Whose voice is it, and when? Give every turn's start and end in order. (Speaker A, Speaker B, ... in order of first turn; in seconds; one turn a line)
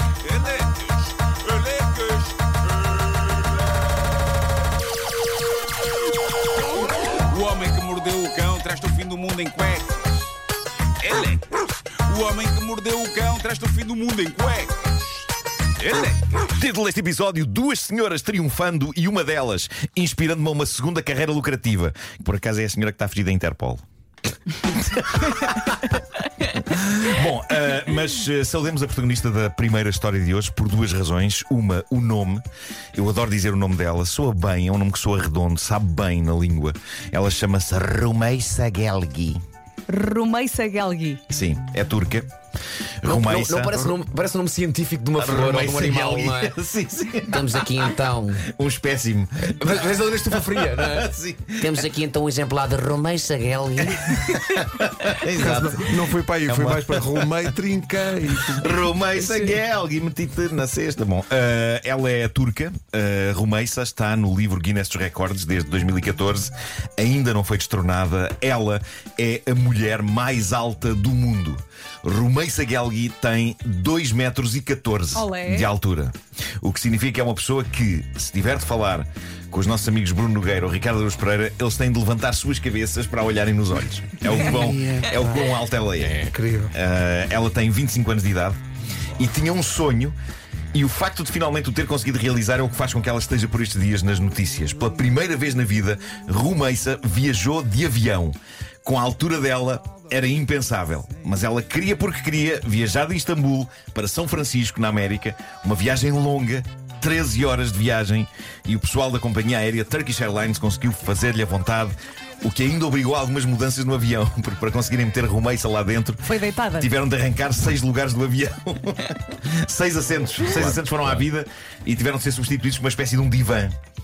Speaker A: 0.2-3.4
Speaker A: 7.0-10.3
Speaker A: 11.0-15.1
Speaker A: 15.8-16.4
Speaker B: 16.5-23.8
Speaker B: 24.7-25.9
Speaker B: 26.5-32.4
Speaker B: 33.0-39.4
Speaker C: 39.9-41.2
Speaker B: 41.3-42.3
Speaker B: 43.0-43.9
Speaker D: 43.0-46.6
Speaker B: 45.2-49.8
Speaker D: 47.3-48.4
Speaker D: 49.6-51.1
Speaker B: 50.3-51.8
Speaker D: 51.6-54.0
Speaker B: 53.8-55.9
Speaker E: 55.4-58.7
Speaker B: 56.5-57.3
Speaker B: 58.5-86.2
Speaker C: 59.2-59.5
Speaker C: 75.1-75.7
Speaker D: 86.0-86.3
Speaker E: 86.3-86.7
Speaker B: 86.7-88.6
Speaker B: 89.2-90.2
Speaker B: 90.7-116.2
Speaker C: 116.3-116.9
Speaker B: 116.8-123.8